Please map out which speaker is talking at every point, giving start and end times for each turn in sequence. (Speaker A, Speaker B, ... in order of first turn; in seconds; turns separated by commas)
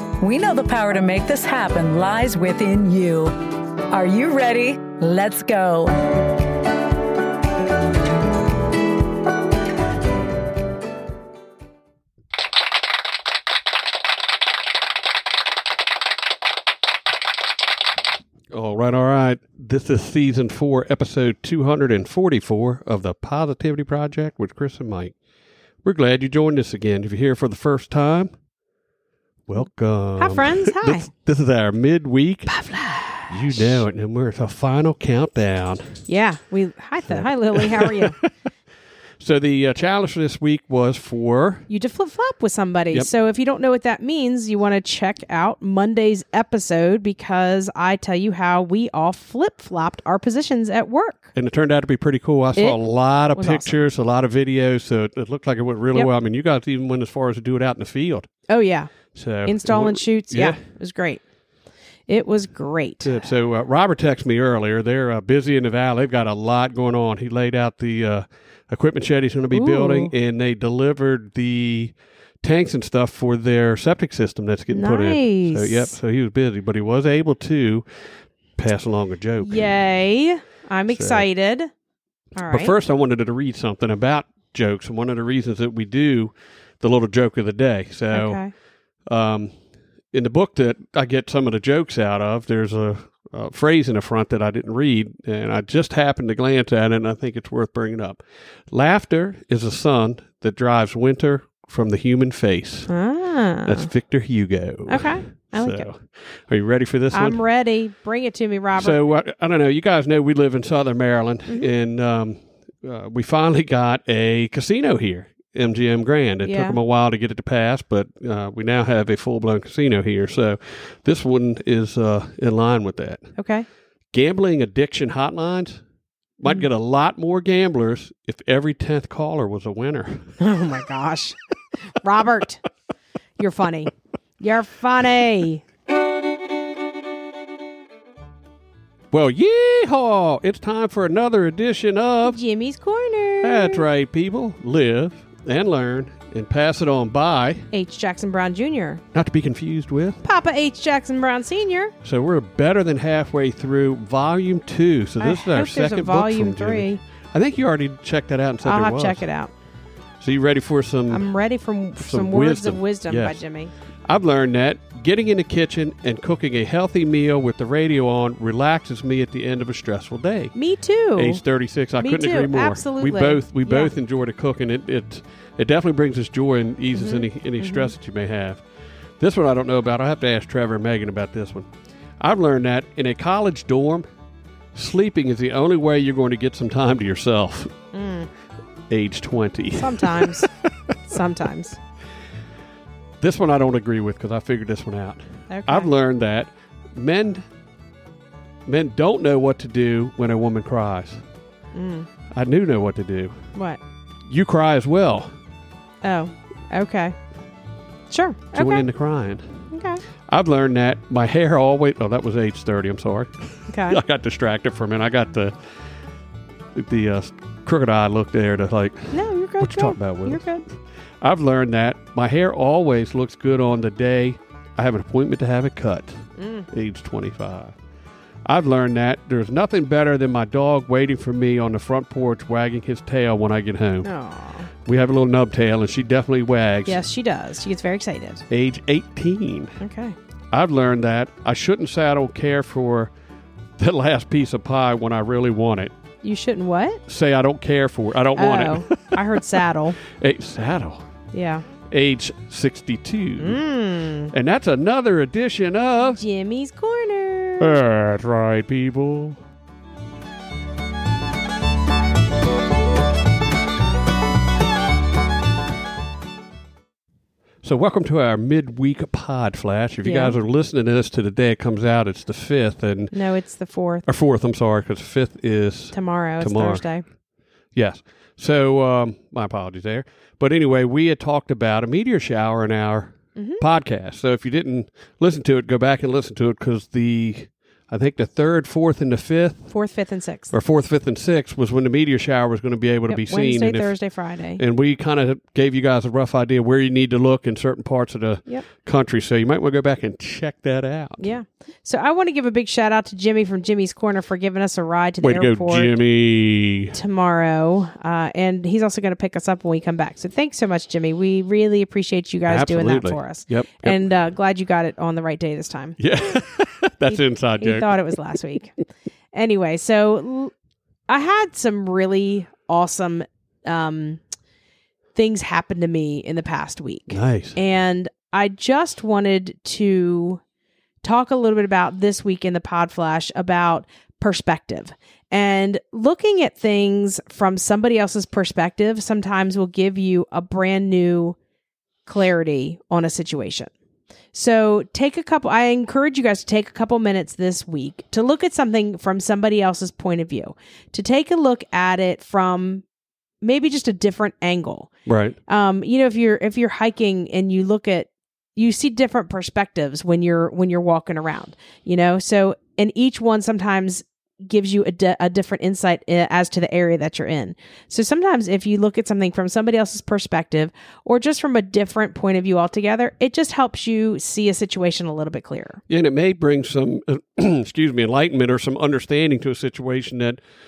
Speaker A: 0.2-3.3, Speaker A: 3.9-6.0, Speaker B: 18.5-25.1, Speaker B: 25.8-28.3, Speaker B: 29.5-32.5, Speaker C: 30.2-31.1, Speaker C: 32.5-33.8, Speaker B: 33.3-36.0, Speaker C: 36.0-38.2, Speaker B: 37.0-38.3, Speaker B: 39.2-41.7, Speaker C: 41.7-51.3, Speaker B: 51.3-58.3, Speaker C: 52.5-52.8, Speaker C: 53.3-53.7, Speaker C: 58.5-58.9, Speaker B: 59.1-60.6, Speaker C: 59.4-61.2, Speaker C: 62.1-63.2, Speaker B: 63.0-77.8, Speaker C: 69.5-70.1, Speaker C: 74.7-75.9, Speaker B: 78.6-79.8, Speaker C: 79.4-81.7, Speaker B: 80.9-81.2, Speaker C: 82.3-82.8, Speaker B: 82.4-88.4, Speaker C: 88.1-88.5, Speaker B: 89.1-89.5, Speaker B: 90.1-102.9, Speaker C: 102.9-103.9, Speaker B: 103.6-107.4, Speaker C: 104.9-105.9, Speaker C: 107.1-109.0, Speaker B: 108.8-123.3, Speaker C: 116.4-116.8, Speaker C: 123.3-123.7, Speaker B: 124.1-125.8, Speaker B: 126.4-130.3, Speaker C: 130.4-131.4, Speaker C: 132.0-132.6, Speaker C: 133.4-135.6, Speaker B: 139.1-142.4, Speaker C: 142.2-143.8, Speaker B: 143.4-147.7, Speaker C: 147.7-149.0, Speaker B: 149.1-150.2, Speaker C: 150.2-151.9, Speaker B: 152.0-159.2, Speaker C: 155.2-157.0, Speaker C: 158.6-159.5, Speaker B: 160.2-161.2, Speaker C: 161.1-163.7, Speaker B: 162.0-163.4, Speaker B: 164.1-170.5, Speaker C: 170.5-171.4, Speaker B: 171.2-178.6, Speaker C: 172.0-173.9, Speaker C: 176.9-177.9, Speaker B: 179.2-181.7, Speaker B: 182.2-184.1, Speaker B: 184.7-187.7, Speaker C: 187.9-188.3, Speaker B: 188.9-190.5, Speaker C: 189.8-190.5, Speaker C: 191.0-191.8, Speaker B: 193.2-197.4, Speaker C: 195.5-195.9, Speaker B: 198.7-201.2, Speaker C: 201.7-202.1, Speaker B: 202.3-203.5, Speaker C: 203.5-203.8, Speaker B: 204.3-205.3, Speaker C: 206.0-207.2, Speaker C: 208.1-208.8, Speaker B: 208.5-209.6, Speaker C: 209.7-210.0, Speaker B: 210.3-215.5, Speaker C: 213.7-214.0, Speaker B: 216.7-220.6, Speaker C: 219.1-220.6, Speaker B: 221.2-227.7, Speaker C: 226.4-226.7, Speaker B: 228.4-234.1, Speaker C: 234.0-234.7, Speaker B: 234.8-237.0, Speaker C: 236.8-238.4, Speaker B: 238.5-239.7, Speaker C: 239.8-240.2, Speaker B: 240.5-243.1, Speaker B: 243.8-245.9, Speaker C: 246.2-247.0, Speaker B: 247.1-249.2, Speaker C: 248.3-250.0, Speaker B: 250.1-251.1, Speaker C: 251.3-251.7, Speaker B: 251.9-253.6, Speaker C: 253.4-254.3, Speaker B: 254.3-256.2, Speaker C: 256.0-257.8, Speaker B: 257.6-259.4, Speaker B: 267.6-273.1, Speaker C: 270.0-270.4, Speaker C: 273.1-274.0, Speaker B: 274.1-276.9, Speaker C: 275.9-277.0, Speaker B: 277.7-289.7, Speaker C: 283.4-283.6, Speaker C: 289.7-290.5, Speaker B: 290.5-293.9, Speaker C: 293.1-294.6, Speaker B: 294.6-301.3, Speaker C: 301.2-305.9, Speaker B: 305.2-307.0, Speaker C: 306.9-316.0, Speaker B: 312.4-314.0, Speaker B: 316.0-318.0, Speaker C: 317.1-318.7, Speaker C: 319.3-320.5, Speaker C: 321.1-324.2, Speaker C: 325.1-330.4, Speaker B: 327.1-327.6, Speaker C: 331.0-341.4, Speaker C: 342.1-343.7, Speaker C: 344.3-352.8, Speaker C: 353.4-354.9, Speaker B: 355.1-355.4, Speaker C: 355.5-375.8, Speaker B: 375.9-380.4